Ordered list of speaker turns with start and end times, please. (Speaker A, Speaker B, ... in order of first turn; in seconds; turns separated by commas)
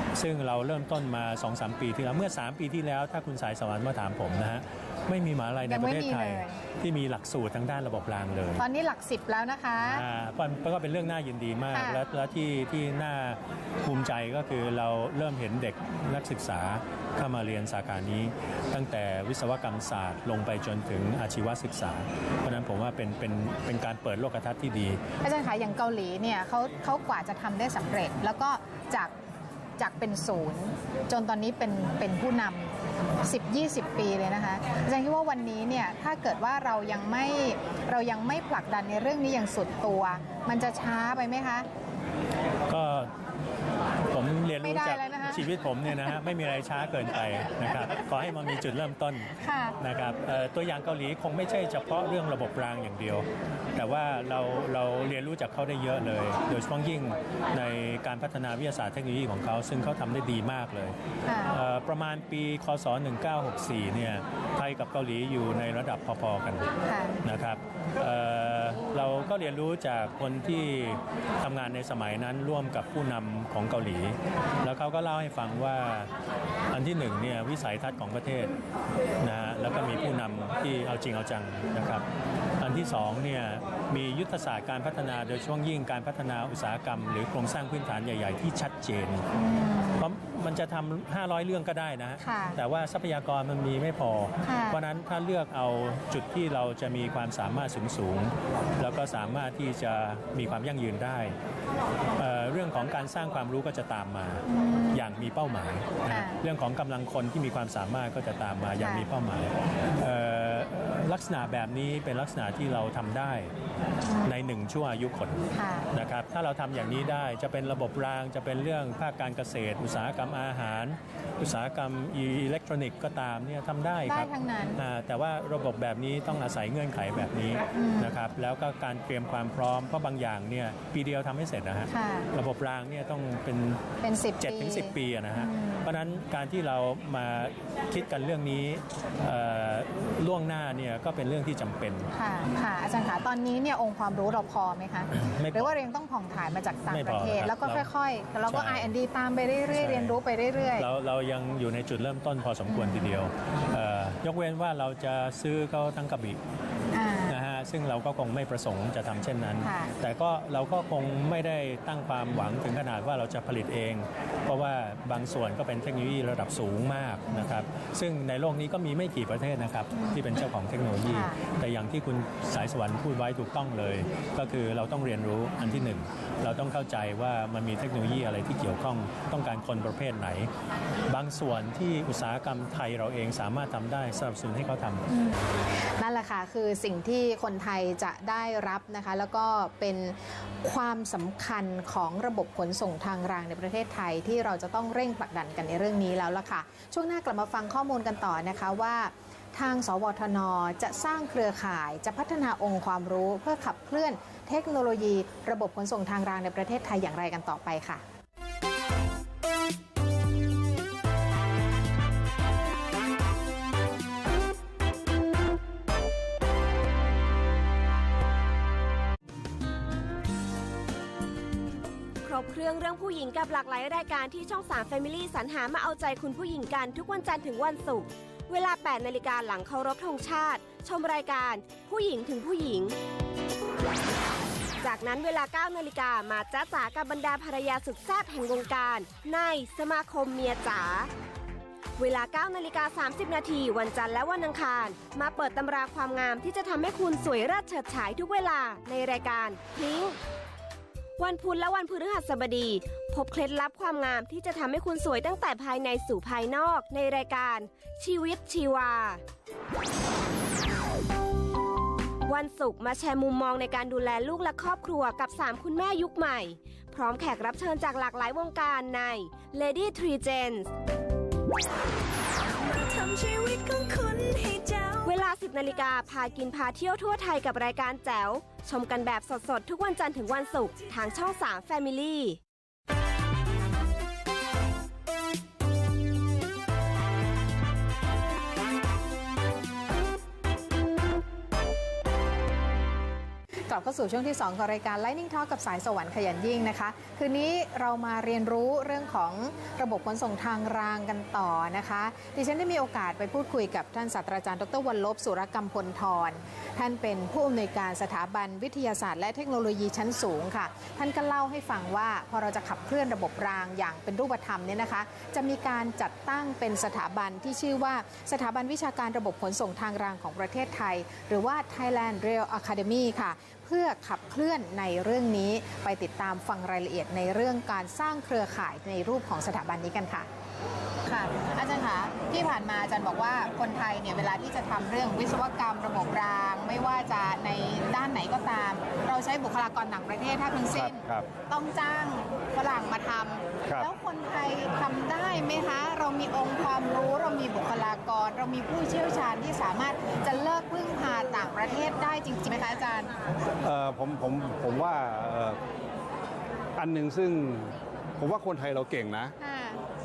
Speaker A: 0.1-8.6, Speaker B: 5.7-6.6, Speaker B: 8.6-10.0, Speaker A: 9.8-25.0, Speaker B: 11.7-12.0, Speaker B: 25.2-29.1, Speaker B: 29.8-41.7, Speaker A: 42.7-43.1, Speaker A: 44.1-60.9, Speaker B: 44.6-45.5, Speaker B: 49.4-49.8, Speaker B: 61.2-61.5, Speaker A: 61.5-66.7, Speaker B: 66.9-67.2, Speaker A: 67.2-76.1, Speaker A: 76.7-78.5, Speaker A: 79.2-82.0, Speaker A: 82.6-89.3, Speaker B: 89.3-90.1, Speaker A: 90.0-101.3, Speaker B: 92.2-92.6, Speaker B: 94.4-94.8, Speaker A: 102.2-113.5, Speaker B: 104.5-105.0, Speaker B: 106.1-106.4, Speaker B: 108.8-109.1, Speaker B: 114.0-114.3, Speaker A: 114.2-133.8, Speaker B: 115.5-115.9, Speaker B: 124.1-124.8, Speaker B: 127.7-128.2, Speaker B: 131.9-132.3, Speaker B: 134.0-135.9, Speaker A: 134.4-142.1, Speaker B: 142.1-150.9, Speaker A: 145.2-145.8, Speaker A: 146.9-147.9, Speaker A: 148.5-148.9, Speaker A: 149.7-150.2, Speaker A: 150.8-156.4, Speaker B: 152.7-153.1, Speaker B: 156.9-157.4, Speaker A: 157.3-180.5, Speaker B: 159.6-159.9, Speaker B: 169.9-170.4, Speaker B: 171.1-171.4, Speaker B: 175.6-175.8, Speaker A: 181.1-185.1, Speaker B: 185.1-185.3, Speaker B: 186.0-208.0, Speaker C: 222.2-232.9, Speaker C: 234.8-241.1, Speaker C: 242.0-250.2, Speaker C: 251.2-259.2, Speaker C: 262.2-270.7, Speaker D: 272.9-275.1, Speaker C: 275.0-282.4, Speaker B: 293.7-330.3, Speaker B: 331.1-353.1, Speaker E: 340.7-341.2, Speaker E: 353.6-355.6, Speaker E: 356.8-359.3, Speaker B: 359.4-359.8